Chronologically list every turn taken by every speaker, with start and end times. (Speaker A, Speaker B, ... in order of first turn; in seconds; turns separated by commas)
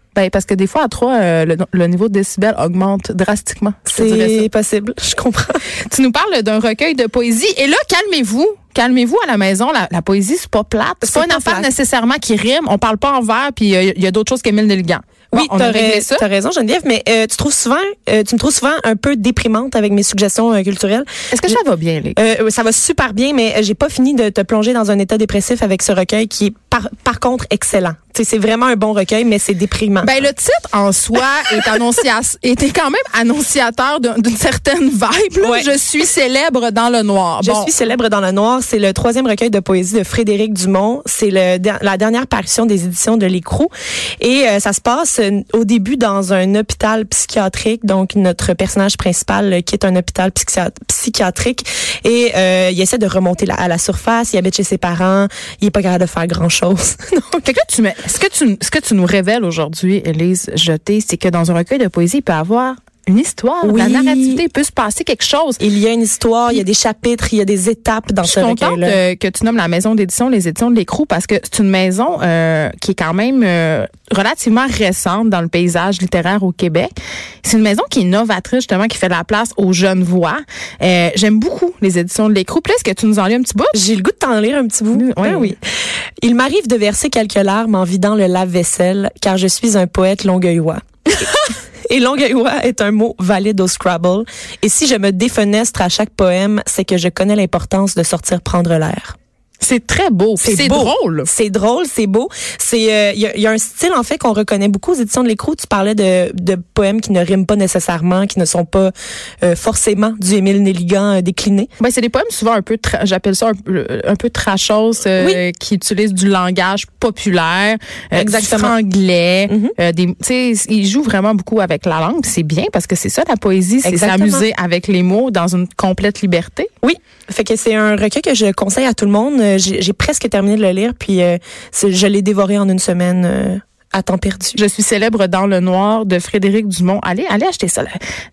Speaker A: 0.1-4.5, Speaker B: 3.9-5.6, Speaker A: 5.9-16.2, Speaker B: 11.0-11.7, Speaker B: 15.3-21.6, Speaker A: 21.3-22.2, Speaker B: 22.2-30.2, Speaker A: 30.0-37.7, Speaker B: 35.4-35.7, Speaker B: 37.4-57.5, Speaker A: 57.4-65.6, Speaker B: 63.6-64.4, Speaker B: 65.6-69.0, Speaker A: 68.2-76.9, Speaker A: 77.4-83.7, Speaker B: 83.7-85.6, Speaker A: 84.9-85.5, Speaker B: 86.2-91.3, Speaker B: 91.9-99.1, Speaker A: 99.6-101.3, Speaker B: 100.4-111.7, Speaker A: 111.8-126.7, Speaker B: 118.2-118.7, Speaker B: 119.5-119.7, Speaker B: 123.8-124.5, Speaker B: 126.8-134.6, Speaker A: 134.6-137.9